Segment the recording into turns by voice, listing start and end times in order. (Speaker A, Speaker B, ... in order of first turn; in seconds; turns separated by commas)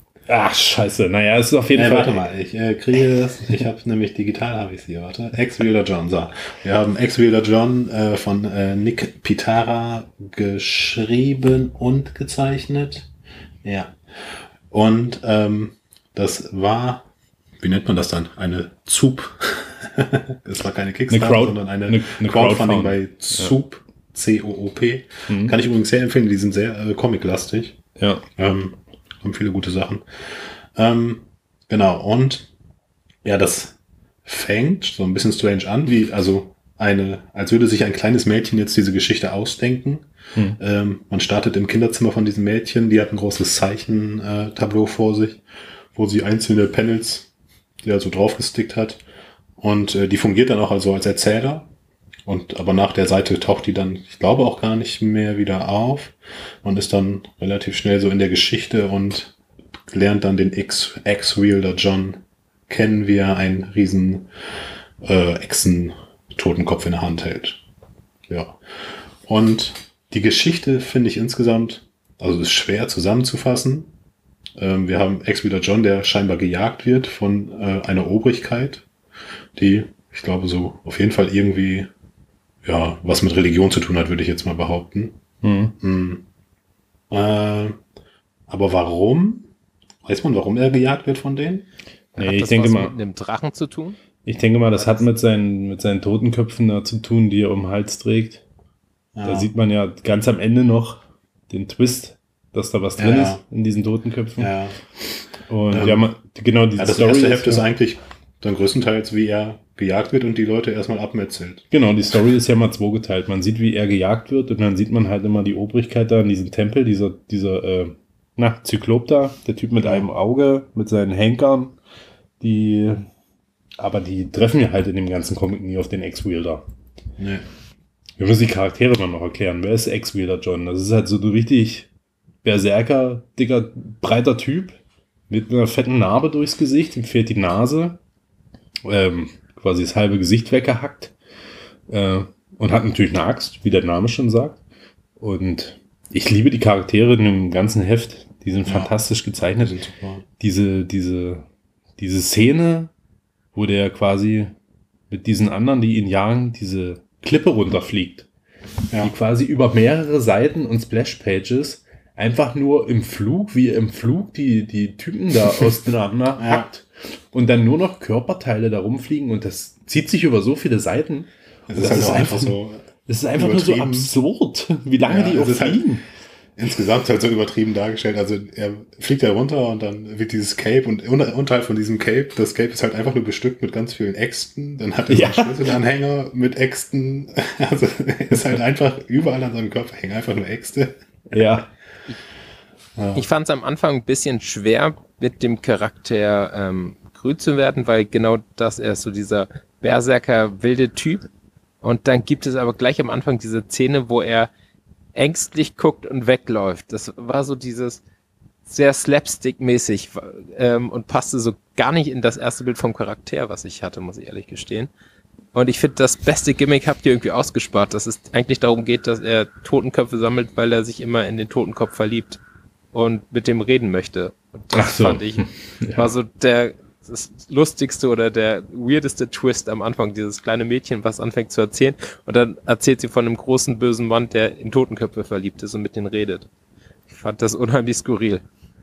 Speaker A: 0.3-2.2, Speaker B: 1.7-13.1, Speaker B: 13.6-14.0, Speaker B: 14.7-17.1, Speaker B: 17.6-27.8, Speaker A: 21.1-23.5, Speaker A: 25.3-25.6, Speaker A: 28.0-28.3, Speaker B: 28.4-32.5, Speaker B: 33.2-40.1, Speaker B: 40.6-47.3, Speaker B: 47.8-49.0, Speaker B: 49.6-51.7, Speaker B: 52.3-59.4, Speaker B: 59.9-64.3, Speaker B: 65.0-67.6, Speaker B: 68.3-68.6, Speaker B: 69.2-73.9, Speaker B: 74.6-78.9, Speaker B: 79.6-81.9, Speaker B: 82.6-85.2, Speaker A: 85.4-85.8, Speaker B: 85.8-86.2, Speaker B: 87.1-87.8, Speaker B: 88.5-89.5, Speaker B: 90.0-91.7, Speaker C: 92.2-94.0, Speaker A: 92.2-92.9, Speaker A: 94.2-98.4, Speaker C: 94.8-95.0, Speaker B: 99.2-99.5, Speaker A: 99.2-104.5, Speaker B: 103.0-103.4, Speaker B: 104.4-104.8, Speaker A: 105.5-107.7, Speaker B: 105.7-106.0, Speaker B: 106.8-111.7, Speaker A: 111.7-121.8, Speaker B: 119.8-120.1, Speaker A: 122.4-123.1, Speaker A: 123.8-126.7, Speaker B: 127.2-127.5, Speaker A: 128.2-131.9, Speaker A: 132.4-134.8, Speaker A: 135.3-138.0, Speaker A: 138.8-141.1, Speaker A: 141.9-144.6, Speaker A: 145.2-149.8, Speaker B: 148.7-148.9, Speaker B: 149.6-150.2, Speaker A: 150.4-151.4, Speaker A: 152.0-152.9, Speaker A: 153.5-154.6, Speaker A: 155.1-158.3, Speaker A: 159.0-176.1, Speaker B: 166.4-166.7, Speaker B: 171.7-174.1, Speaker B: 175.1-175.9, Speaker B: 176.6-191.0, Speaker A: 185.1-185.6, Speaker A: 191.3-191.7, Speaker B: 193.0-193.2, Speaker C: 193.2-201.3, Speaker C: 201.8-204.5, Speaker C: 205.2-208.0, Speaker C: 208.7-214.9, Speaker C: 215.5-222.4, Speaker C: 222.9-236.5, Speaker A: 224.7-226.1, Speaker C: 237.1-238.4